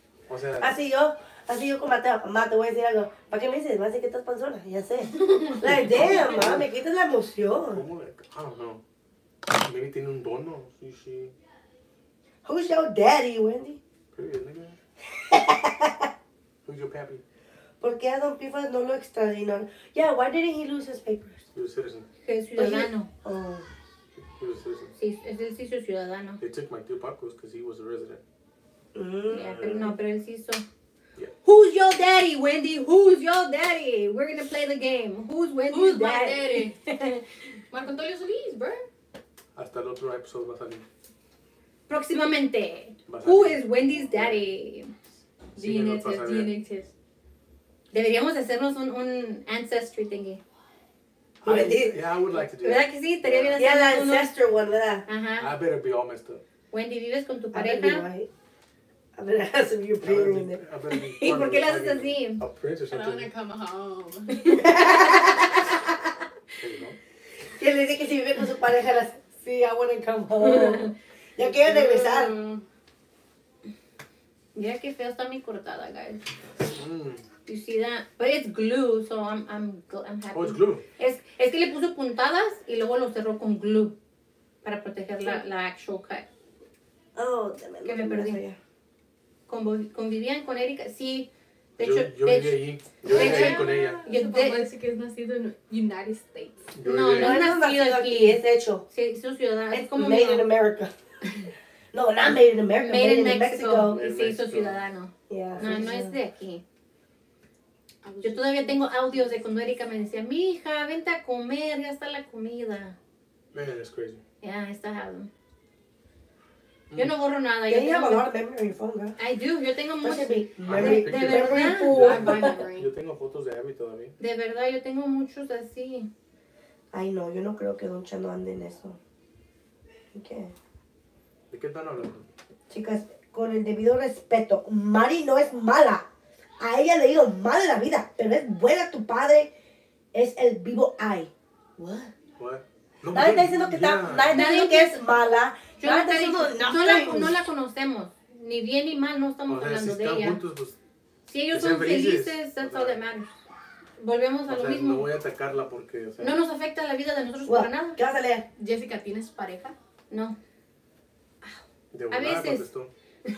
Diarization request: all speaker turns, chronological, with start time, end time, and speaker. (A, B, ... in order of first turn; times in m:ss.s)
0:00.3-0:00.8 A
0:00.6-0:07.8 B
0:05.8-0:06.7 A
0:07.7-0:08.8 A
0:09.5-0:11.4 A
0:12.4-0:13.8 B
0:14.1-0:14.8 A
0:15.1-0:16.1 B
0:16.6-0:17.2 A
0:17.8-0:21.5 B
0:21.5-0:22.1 A
0:22.2-0:23.1 C
0:22.6-0:23.7 B
0:24.3-0:24.9 A
0:25.0-0:26.4 C
0:26.4-0:28.2 A
0:28.9-0:30.0 B
0:29.3-0:30.6 C
0:31.4-0:37.2 C
0:35.7-0:36.8 D
0:37.7-0:38.9 D
0:39.6-0:40.9 A
0:41.9-0:44.9 C
0:43.1-0:43.6 A
0:45.6-0:46.6 A
0:45.6-0:46.9 D
0:47.9-0:50.4 C
0:51.4-0:52.0 B
0:51.4-0:53.6 A
0:52.6-0:54.3 C
0:53.6-0:55.1 B
0:55.1-0:55.5 C
0:55.4-0:56.4 A
0:56.7-0:58.1 C
0:57.5-0:58.3 B
0:59.2-1:00.6 B
1:00.0-1:03.3 A
1:00.9-1:02.4 C
1:02.9-1:04.8 D
1:04.3-1:05.7 C
1:04.6-1:05.7 B
1:06.6-1:07.0 A
1:07.6-1:12.4 B
1:10.4-1:10.9 C
1:11.4-1:12.6 D
1:14.6-1:16.3 C
1:16.6-1:17.2 A
1:17.5-1:24.0 C
1:20.3-1:20.8 A
1:24.6-1:26.2 C
1:27.2-1:28.6 B
1:27.8-1:28.4 C
1:29.5-1:34.7 C
1:31.8-1:34.0 A
1:33.1-1:36.7 D
1:36.7-1:37.4 A
1:36.8-1:40.5 C
1:37.1-1:38.8 B
1:39.7-1:40.9 B
1:41.9-1:44.0 B
1:42.8-1:46.6 C
1:44.0-1:44.8 A
1:45.3-1:46.2 B
1:48.0-1:49.9 D
1:48.2-1:53.0 C
1:53.5-1:54.2 A
1:54.4-1:55.3 C
1:56.9-1:58.3 C
1:57.7-1:59.2 B
1:59.2-2:02.1 C
2:00.0-2:02.6 B
2:00.6-2:04.1 A
2:01.8-2:02.9 D
2:04.2-2:06.1 C
2:06.9-2:09.0 B
2:10.1-2:10.6 B
2:11.5-2:12.3 A
2:12.7-2:16.1 B
2:16.6-2:19.5 B
2:20.1-2:22.1 B
2:22.4-2:24.4 A
2:23.1-2:27.4 B
2:24.3-2:25.0 C
2:25.8-2:30.4 C
2:29.5-2:30.8 A
2:31.3-2:33.3 C
2:31.5-2:33.0 A
2:34.0-2:35.1 C
2:34.5-2:36.4 A
2:36.2-2:38.0 C
2:37.5-2:38.5 B
2:38.6-2:39.8 D
2:40.1-2:40.4 C
2:41.9-2:42.9 A
2:42.1-2:42.7 C